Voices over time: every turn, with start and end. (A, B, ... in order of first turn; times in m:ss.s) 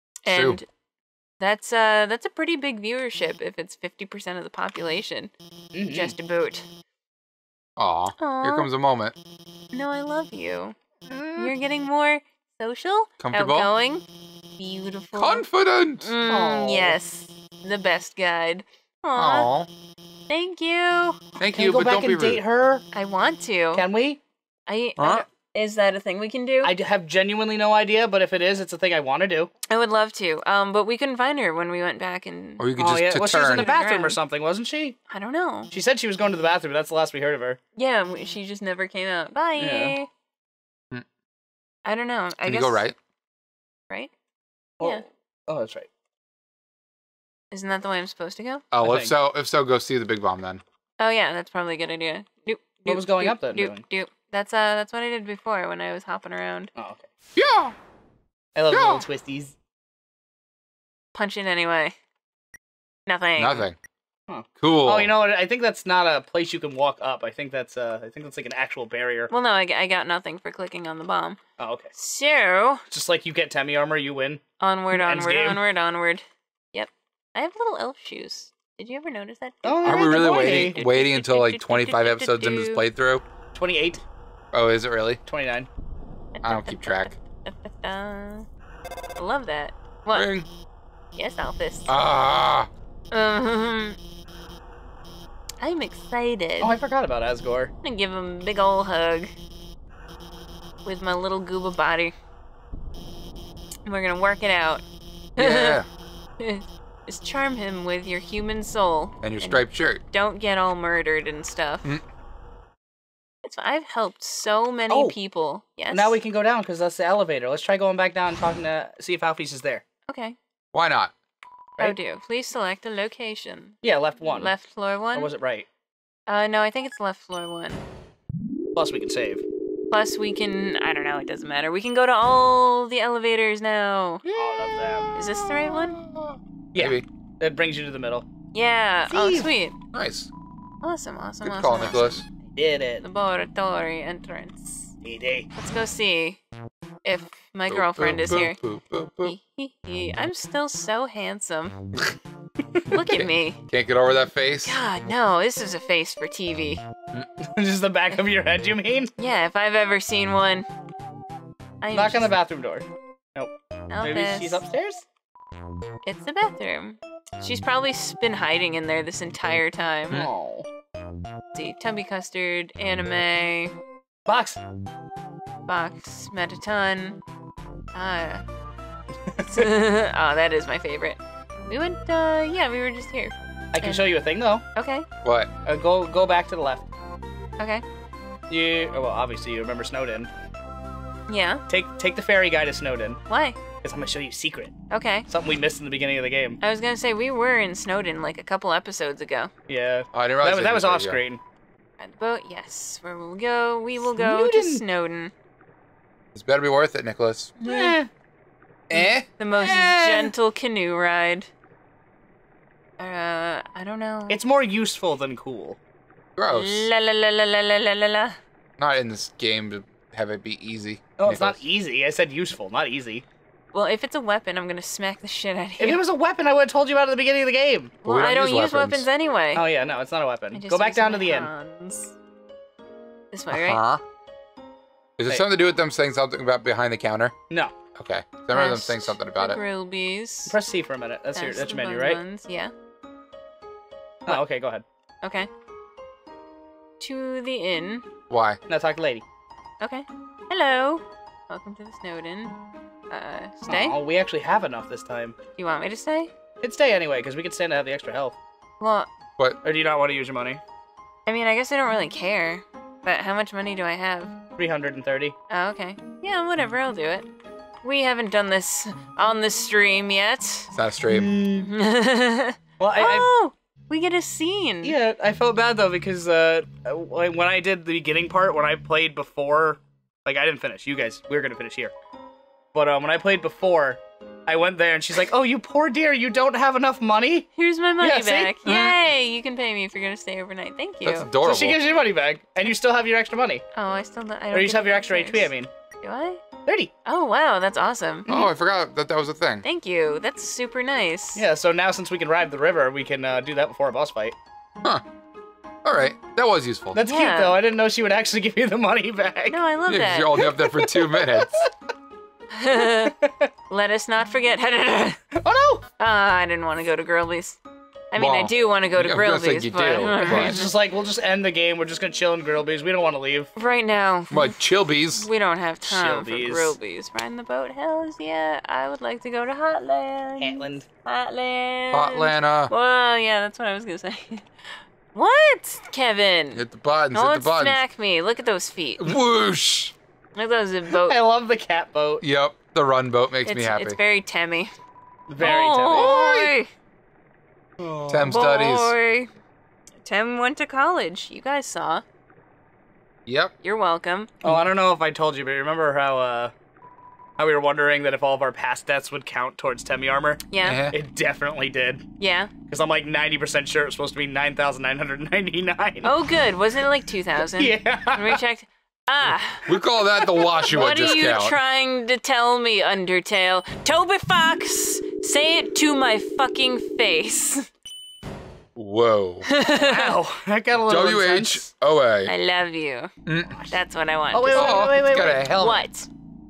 0:00.2-0:00.7 A
0:00.3-0:00.6 B
0:01.4-0:05.3 A
0:05.7-0:06.2 C
0:05.9-0:06.6 A
0:07.8-0:09.2 B
0:08.2-0:08.7 A
0:09.7-0:10.8 A
0:11.1-0:11.5 B
0:11.4-0:14.0 A
0:13.2-0:13.7 B
0:14.6-0:15.4 A
0:15.2-0:16.1 B
0:16.0-0:19.5 A
0:16.3-0:17.0 C
0:19.2-0:19.7 B
0:20.3-0:21.2 A
0:21.4-0:22.4 B
0:21.5-0:22.8 C
0:22.9-0:23.8 A
0:23.7-0:24.2 C
0:24.7-0:26.7 A
0:25.0-0:25.2 B
0:26.6-0:29.5 C
0:29.7-0:32.6 A
0:32.6-0:33.7 B
0:32.8-0:35.0 C
0:33.6-0:34.2 A
0:35.1-0:35.7 A
0:35.7-0:37.6 C
0:37.8-0:40.1 A
0:39.6-0:40.0 C
0:41.8-0:42.9 A
0:42.4-0:43.0 B
0:44.8-0:45.9 C
0:47.5-0:48.6 A
0:48.7-0:50.6 B
0:48.8-0:49.1 C
0:51.0-0:56.7 A
0:52.9-0:53.8 C
0:56.8-0:57.1 C
0:57.4-0:57.8 B
0:58.6-0:59.6 C
0:58.7-0:59.0 B
1:01.1-1:02.0 A
1:03.1-1:03.6 A
1:03.4-1:03.8 B
1:04.3-1:09.3 C
1:04.6-1:05.1 B
1:09.3-1:11.4 A
1:11.6-1:11.9 C
1:12.0-1:12.8 A
1:12.9-1:14.4 C
1:14.6-1:22.8 A
1:14.9-1:15.6 C
1:19.6-1:20.8 C
1:19.8-1:23.2 B
1:23.5-1:24.0 C
1:24.5-1:25.2 B
1:25.3-1:25.7 C
1:26.4-1:28.5 A
1:26.4-1:27.2 B
1:29.2-1:30.3 A
1:30.1-1:30.5 B
1:31.2-1:31.9 A
1:31.9-1:32.7 B
1:33.1-1:34.0 A
1:35.6-1:36.8 A
1:36.6-1:37.7 C
1:37.8-1:39.3 A
1:40.8-1:42.1 A
1:43.9-1:44.8 A
1:45.4-1:45.8 A
1:45.4-1:45.9 B
1:46.4-1:51.9 A
1:49.2-1:50.0 B
1:53.4-1:56.2 A
1:54.9-1:55.2 C
1:55.9-1:59.8 C
2:00.1-2:00.4 A
2:00.7-2:01.1 B
2:01.8-2:03.8 A
2:03.8-2:04.5 C
2:04.3-2:05.3 A
2:05.1-2:05.7 C
2:06.3-2:07.8 A
2:08.8-2:09.4 C
2:09.9-2:14.2 A
2:14.3-2:14.8 B
2:14.4-2:15.2 C
2:15.2-2:16.0 A
2:16.0-2:17.0 B
2:16.7-2:18.2 C
2:18.5-2:19.8 A
2:19.1-2:19.5 C
2:19.9-2:20.3 B
2:20.8-2:22.3 A
2:21.4-2:22.2 B
2:22.6-2:23.0 C
2:23.0-2:24.9 A
2:25.0-2:25.5 C
2:25.6-2:26.4 A
2:27.0-2:28.6 A
2:27.7-2:29.4 B
2:29.2-2:31.8 A
2:32.9-2:33.6 A
2:33.1-2:34.8 B
2:34.6-2:36.8 A
2:37.4-2:39.1 C
2:39.2-2:40.7 A
2:41.8-2:42.4 A
2:41.9-2:45.1 C
2:43.9-2:44.6 A
2:46.0-2:50.2 A
2:50.1-2:50.7 C
2:51.5-2:53.7 A
2:54.3-2:54.6 C
2:55.7-2:57.2 A
2:57.9-2:58.4 A
2:59.3-2:59.7 C
2:59.4-3:04.1 A
3:03.7-3:04.6 C
3:04.8-3:05.1 A
3:05.2-3:05.5 B
3:05.6-3:06.9 C
3:07.6-3:07.8 A
3:08.5-3:10.3 C
3:11.3-3:11.6 A
3:11.7-3:13.2 C
3:13.3-3:13.6 A
3:13.8-3:14.7 C
3:14.9-3:15.3 A
3:15.3-3:16.6 C
3:16.6-3:19.5 A
3:19.7-3:21.4 C
3:20.1-3:21.2 B
3:22.0-3:25.3 A
3:24.0-3:24.8 C
3:26.4-3:27.6 B
3:27.6-3:28.0 A
3:27.6-3:28.1 C
3:28.9-3:29.3 B
3:29.4-3:31.5 A
3:29.5-3:30.3 C
3:33.0-3:34.4 A
3:34.3-3:35.8 C
3:36.4-3:36.9 B
3:36.5-3:38.4 A
3:38.8-3:41.6 B
3:41.2-3:43.2 C
3:43.7-3:46.0 A
3:45.8-3:48.0 C
3:48.0-3:49.1 B
3:48.0-3:49.6 A
3:49.6-3:51.5 C
3:50.5-3:52.2 A
3:53.3-3:53.8 A
3:53.5-3:54.0 B
3:55.2-3:57.3 B
3:58.0-3:59.6 B
3:58.5-4:00.6 A
4:00.5-4:02.2 C
4:01.3-4:02.7 A
4:04.3-4:04.8 C
4:05.2-4:05.5 A
4:07.0-4:08.0 A
4:08.3-4:08.6 B
4:08.7-4:09.2 C
4:09.8-4:12.6 A
4:13.1-4:14.0 A
4:13.7-4:15.4 C
4:15.6-4:16.3 A
4:16.6-4:18.4 C
4:18.8-4:19.1 A
4:19.6-4:20.6 C
4:21.3-4:24.4 A
4:24.6-4:25.4 C
4:25.5-4:27.3 A
4:27.8-4:30.7 A
4:30.7-4:31.3 B
4:31.1-4:31.7 C
4:31.6-4:35.0 A
4:32.8-4:33.3 C
4:34.8-4:41.9 C
4:42.7-4:47.5 C
4:47.6-4:51.3 A
4:48.0-4:48.6 C
4:48.6-4:49.0 B
4:51.0-4:51.8 B
4:51.4-4:53.6 C
4:53.7-4:56.4 A
4:54.5-4:55.7 C
4:56.7-4:56.9 C
4:57.0-4:58.3 A
4:58.3-4:58.5 C
4:58.3-4:59.6 B
4:59.6-5:01.4 A
5:01.4-5:04.4 C
5:05.8-5:07.0 B
5:07.0-5:09.6 C
5:07.0-5:07.6 A
5:09.5-5:10.4 A
5:09.9-5:11.6 B
5:10.4-5:11.7 C
5:12.5-5:13.2 A
5:12.9-5:13.5 C
5:13.7-5:15.2 A
5:15.4-5:15.8 C
5:16.0-5:17.6 A
5:18.1-5:20.7 A
5:18.2-5:20.6 B
5:20.2-5:23.5 C
5:23.6-5:24.6 A
5:24.3-5:25.3 B
5:25.1-5:34.5 A
5:25.8-5:26.8 C
5:30.4-5:30.8 C
5:31.9-5:32.7 B
5:35.1-5:39.2 A
5:36.5-5:37.8 B
5:39.0-5:39.9 B
5:40.3-5:41.2 A
5:40.9-5:42.2 C
5:42.2-5:44.0 B
5:43.5-5:44.7 A
5:45.3-5:46.2 C
5:45.4-5:46.7 A
5:45.9-5:46.5 B
5:47.8-5:48.3 C
5:48.1-5:48.9 B
5:48.3-5:49.3 A
5:50.0-5:52.0 A
5:53.3-5:53.5 B
5:53.6-5:54.3 A
5:54.4-5:56.5 C
5:57.4-6:02.0 C
6:00.5-6:00.9 A
6:00.6-6:01.0 B
6:02.2-6:02.5 A
6:02.7-6:06.2 C
6:06.0-6:09.8 A
6:07.4-6:08.4 C
6:09.6-6:11.6 B
6:10.6-6:17.7 A
6:18.8-6:19.5 B
6:19.4-6:20.2 A
6:19.7-6:21.7 C
6:20.9-6:22.3 B
6:22.3-6:23.1 A
6:23.3-6:23.6 B
6:23.7-6:26.1 A
6:24.3-6:25.9 C
6:24.6-6:25.5 B